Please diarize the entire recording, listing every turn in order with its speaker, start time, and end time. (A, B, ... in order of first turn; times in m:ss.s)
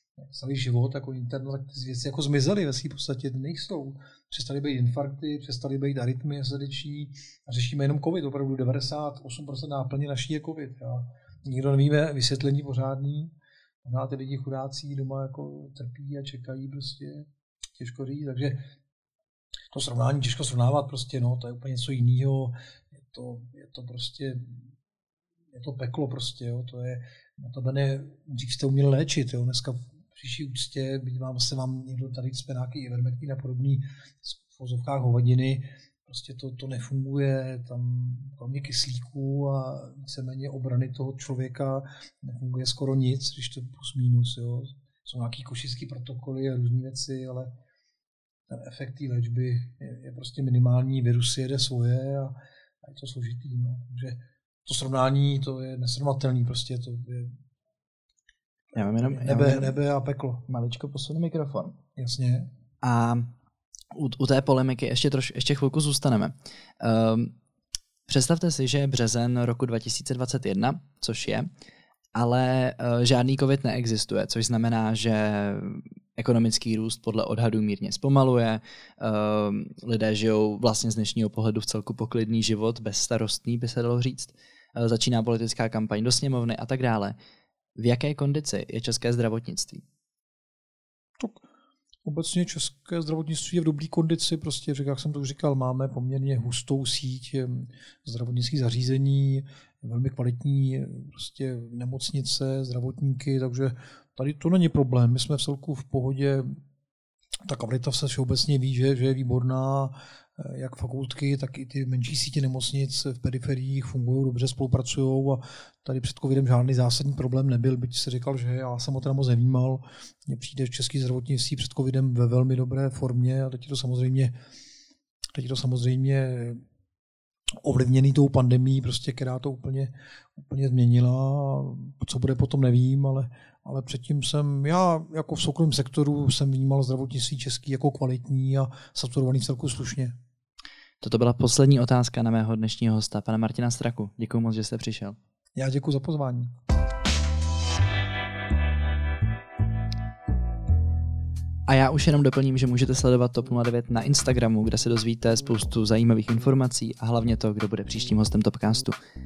0:00.2-0:13.3 A
0:13.8-0:18.6 A
0:19.7-0:22.5 A
0:23.1-0:24.6 A
0:25.5-0:47.5 A
0:48.5-0:57.4 A
0:58.7-1:00.4 A
0:58.8-0:59.7 B
1:00.5-1:01.8 B
1:02.0-1:02.5 A
1:02.8-1:03.3 B
1:03.9-1:07.3 B
1:08.1-1:11.5 B
1:12.2-1:27.2 B
1:27.8-1:29.8 B
1:31.2-1:31.4 A
1:32.0-1:46.6 A
1:47.4-2:04.3 A
2:05.3-2:06.6 A
2:07.6-2:20.1 A
2:21.0-2:25.2 B
2:25.5-2:26.5 A
2:31.7-2:39.0 B